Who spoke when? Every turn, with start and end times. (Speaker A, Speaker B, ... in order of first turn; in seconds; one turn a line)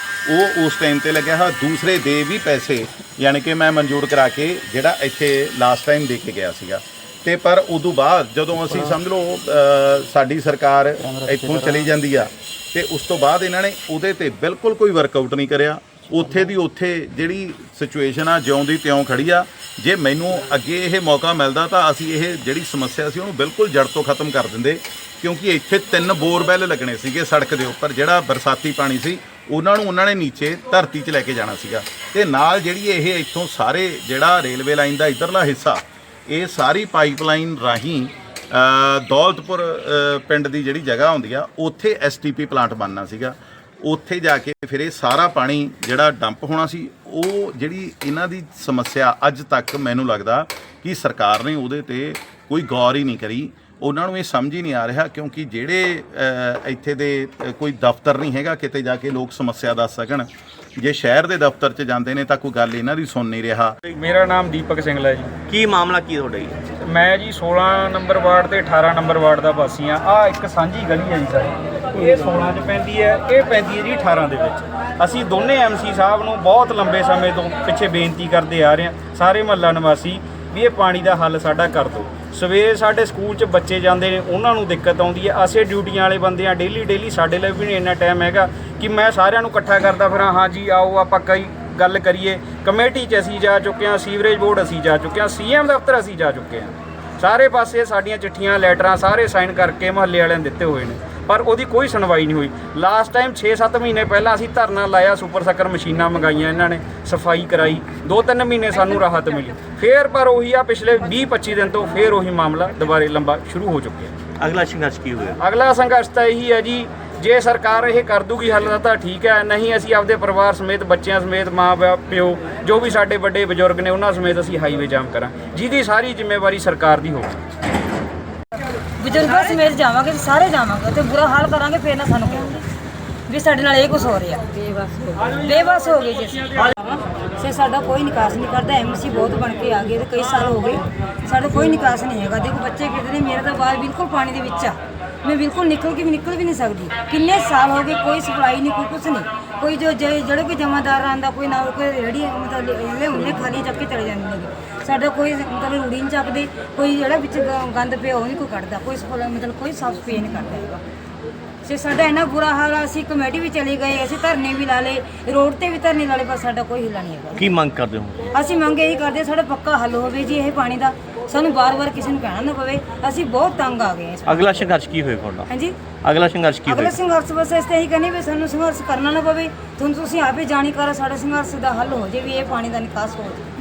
Speaker A: 0.2-63.8
Speaker B: 63.9-65.3
Speaker C: 65.5-66.6
Speaker B: 66.8-114.1
Speaker C: 114.4-115.4
Speaker B: 115.4-127.4
Speaker D: 129.0-132.6
Speaker D: 133.3-160.8
Speaker D: 161.6-167.5
Speaker C: 167.4-168.3
Speaker D: 168.3-174.7
Speaker C: 174.2-175.5
Speaker D: 175.5-175.8
Speaker C: 176.0-176.9
Speaker D: 176.7-183.5